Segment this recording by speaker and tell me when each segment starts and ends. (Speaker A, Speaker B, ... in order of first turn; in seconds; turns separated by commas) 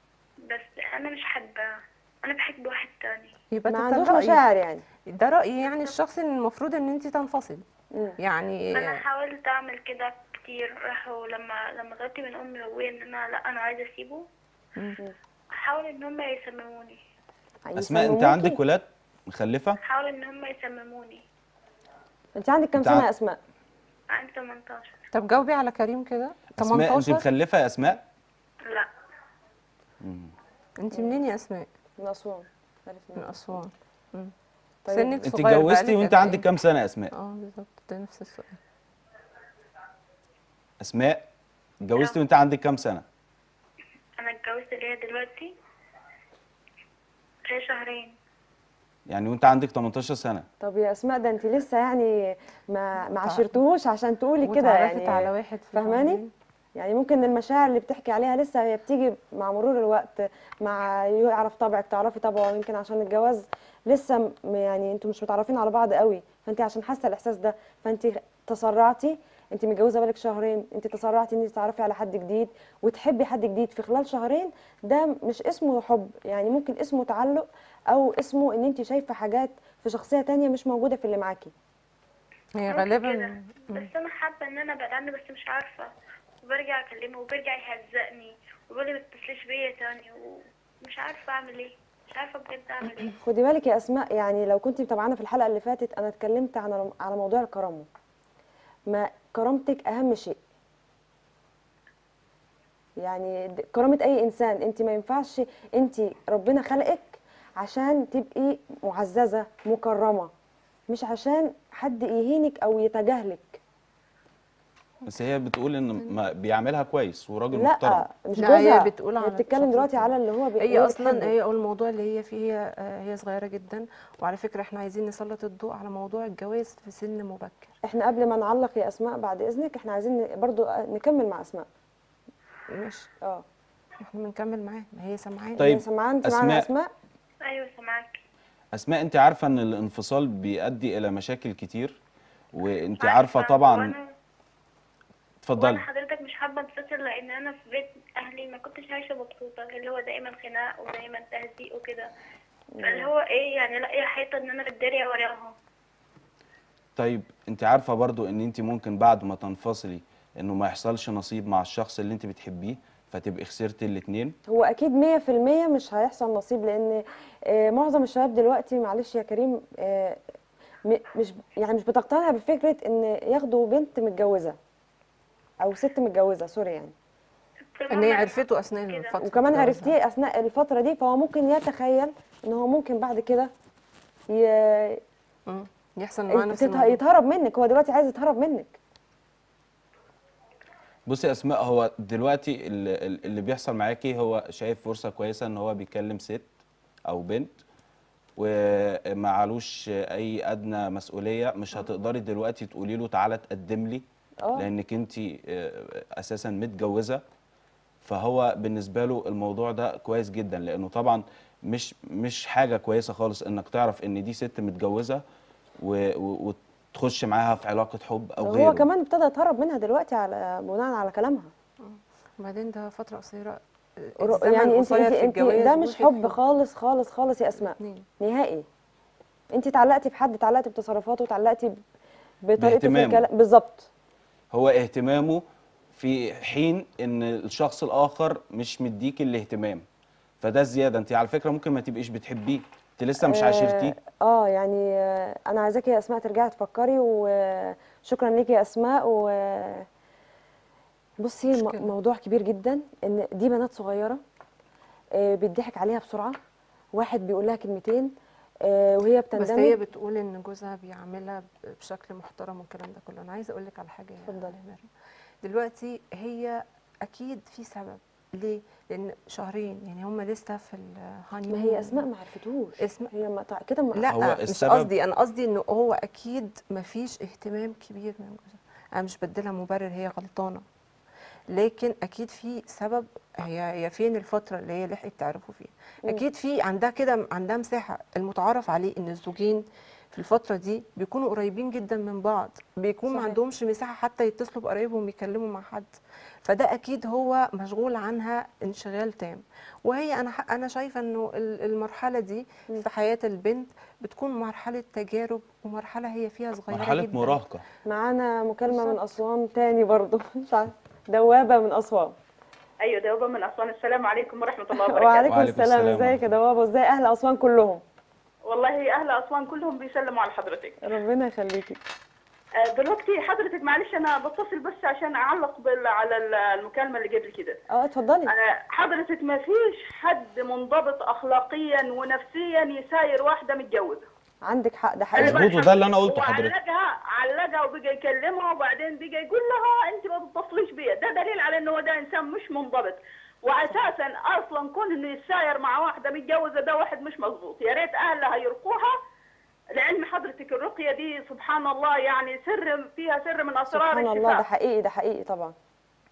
Speaker A: 0.4-3.3, Speaker B: 3.5-4.4, Speaker C: 3.7-4.8, Speaker B: 5.1-7.6, Speaker B: 8.2-9.0, Speaker A: 8.7-14.2, Speaker A: 15.5-17.0, Speaker C: 17.7-18.6, Speaker D: 17.8-19.8, Speaker A: 19.8-21.2, Speaker C: 22.4-23.4, Speaker D: 22.8-23.1, Speaker A: 24.1-24.9, Speaker B: 25.1-27.2, Speaker D: 26.6-28.0, Speaker A: 28.6-28.9, Speaker D: 30.0-30.3, Speaker B: 30.8-31.6, Speaker C: 30.9-31.2, Speaker C: 32.0-33.6, Speaker B: 33.2-34.3, Speaker C: 34.9-35.2, Speaker B: 34.9-36.5, Speaker D: 35.2-37.1, Speaker B: 37.1-38.6, Speaker D: 40.8-41.3, Speaker D: 41.8-43.0, Speaker A: 44.2-45.5, Speaker A: 47.4-48.1, Speaker D: 49.1-50.5, Speaker C: 50.6-56.2, Speaker B: 53.2-53.5, Speaker B: 54.4-56.3, Speaker C: 56.8-81.5, Speaker B: 82.6-83.9, Speaker A: 82.7-85.9, Speaker A: 86.4-93.2, Speaker C: 93.2-97.9, Speaker C: 98.9-100.4, Speaker C: 103.0-110.3, Speaker C: 110.9-113.6, Speaker D: 115.0-118.0, Speaker C: 117.5-121.3, Speaker B: 118.3-127.7, Speaker C: 127.8-131.7, Speaker B: 132.7-133.1, Speaker B: 134.0-135.7, Speaker D: 135.6-136.7, Speaker C: 135.6-136.9, Speaker A: 137.4-138.2, Speaker D: 138.7-142.0, Speaker D: 142.5-143.9, Speaker A: 143.0-144.1, Speaker D: 145.4-145.8, Speaker A: 145.6-152.1, Speaker C: 152.7-153.1, Speaker A: 152.8-155.5, Speaker D: 156.9-164.3, Speaker C: 164.5-170.2, Speaker C: 170.9-174.6, Speaker C: 175.6-176.9, Speaker A: 177.7-179.2, Speaker B: 177.9-179.9, Speaker C: 179.2-183.5, Speaker C: 184.3-185.0, Speaker B: 185.5-187.0, Speaker C: 186.3-188.8, Speaker D: 191.1-196.5, Speaker D: 197.1-197.5, Speaker D: 198.4-204.0, Speaker D: 204.6-207.2, Speaker D: 208.0-215.2, Speaker D: 215.8-218.9, Speaker C: 218.4-221.5, Speaker B: 221.8-226.4, Speaker C: 224.2-228.7, Speaker B: 227.6-228.1, Speaker C: 229.5-231.8, Speaker C: 232.4-233.9, Speaker D: 232.6-233.2, Speaker D: 234.5-239.8, Speaker D: 240.4-243.9, Speaker C: 243.2-249.8, Speaker C: 251.2-254.2, Speaker B: 251.5-251.9, Speaker C: 255.2-256.4, Speaker C: 256.9-258.1, Speaker C: 258.6-259.8, Speaker B: 259.4-264.9, Speaker C: 264.2-264.5, Speaker B: 265.4-272.0, Speaker C: 271.5-274.1, Speaker B: 272.8-273.1, Speaker B: 273.9-280.6, Speaker D: 274.1-274.9, Speaker B: 281.5-295.9, Speaker C: 293.1-293.4, Speaker B: 296.4-307.4, Speaker D: 306.7-307.6, Speaker C: 307.9-312.2, Speaker B: 308.7-309.0, Speaker E: 312.8-315.3, Speaker C: 314.8-317.8, Speaker D: 315.3-316.3, Speaker E: 318.4-320.8, Speaker C: 320.8-321.8, Speaker E: 322.6-327.6, Speaker C: 327.7-328.3, Speaker E: 328.3-334.1, Speaker C: 334.5-335.5, Speaker E: 335.1-348.9, Speaker D: 335.2-336.5, Speaker E: 349.7-354.4, Speaker C: 353.7-355.5